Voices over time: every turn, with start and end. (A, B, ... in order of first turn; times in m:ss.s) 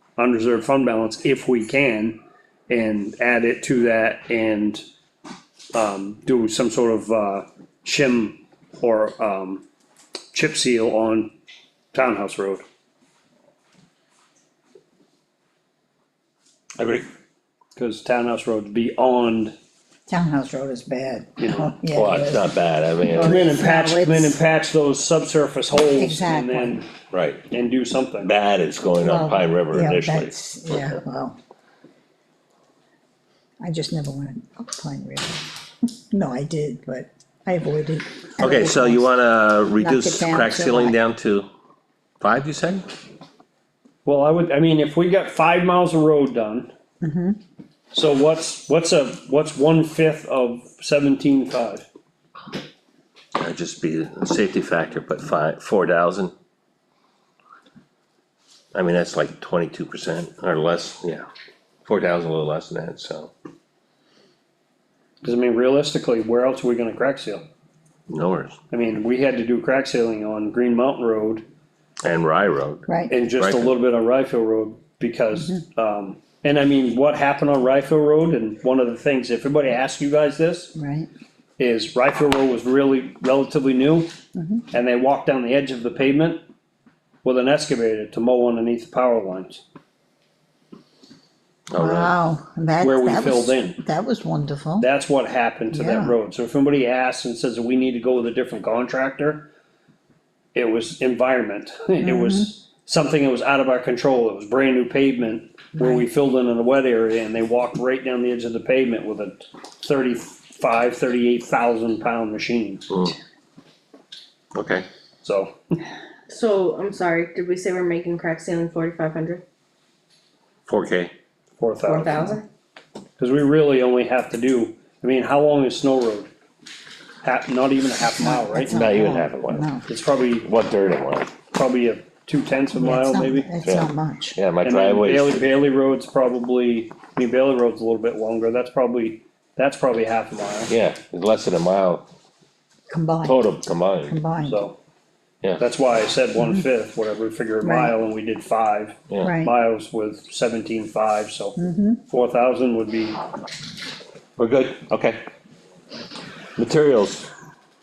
0:00.2-0:02.2 A
0:02.7-0:04.8 A
0:05.7-0:09.6 A
0:10.3-0:11.3 A
0:11.9-0:12.6 A
0:16.8-0:17.1 B
0:17.8-0:19.5 A
0:20.1-0:22.5 C
0:21.4-0:21.7 A
0:21.9-0:23.5 B
0:23.0-0:24.4 C
0:23.2-0:26.9 A
0:25.7-0:26.8 C
0:27.1-0:27.4 B
0:27.5-0:28.3 A
0:28.2-0:30.4 B
0:29.0-0:31.4 C
0:33.6-0:39.1 C
0:38.4-0:41.5 B
0:39.8-0:41.0 C
0:42.2-0:42.9 B
0:44.0-0:46.7 A
0:47.0-0:47.4 C
0:47.9-0:51.9 A
0:53.4-0:56.3 B
0:58.7-1:01.2 B
1:01.9-1:03.3 B
1:05.2-1:07.4 A
1:08.1-1:08.6 B
1:08.7-1:11.5 A
1:12.0-1:13.7 B
1:12.9-1:13.1 C
1:13.1-1:20.7 A
1:20.8-1:21.1 C
1:21.6-1:24.1 A
1:24.4-1:24.7 C
1:24.7-1:26.4 A
1:27.2-1:29.6 A
1:31.7-1:32.2 B
1:31.8-1:34.9 C
1:32.8-1:33.8 A
1:34.8-1:39.5 A
1:35.7-1:36.1 C
1:40.5-1:52.9 A
1:42.0-1:42.5 C
1:45.8-1:46.1 C
1:52.9-1:53.2 B
1:54.6-1:54.9 B
1:55.2-1:55.5 A
1:56.3-1:59.4 D
2:00.7-2:01.1 B
2:01.6-2:02.4 A
2:01.8-2:02.5 D
2:03.2-2:06.3 A
2:07.2-2:08.8 A
2:08.1-2:09.9 C
2:08.7-2:09.7 B
2:09.9-2:10.5 A
2:10.4-2:11.3 B
2:11.5-2:13.5 A
2:12.7-2:14.4 C
2:13.6-2:15.4 B
2:14.6-2:20.7 A
2:20.7-2:22.1 B
2:22.9-2:23.5 C
2:23.2-2:24.2 B
2:24.0-2:24.6 C
2:24.4-2:24.8 A
2:25.6-2:33.2 A
2:27.6-2:28.0 C
2:29.2-2:29.5 C
2:31.6-2:32.0 C
2:34.4-2:35.2 B
2:36.6-2:37.3 B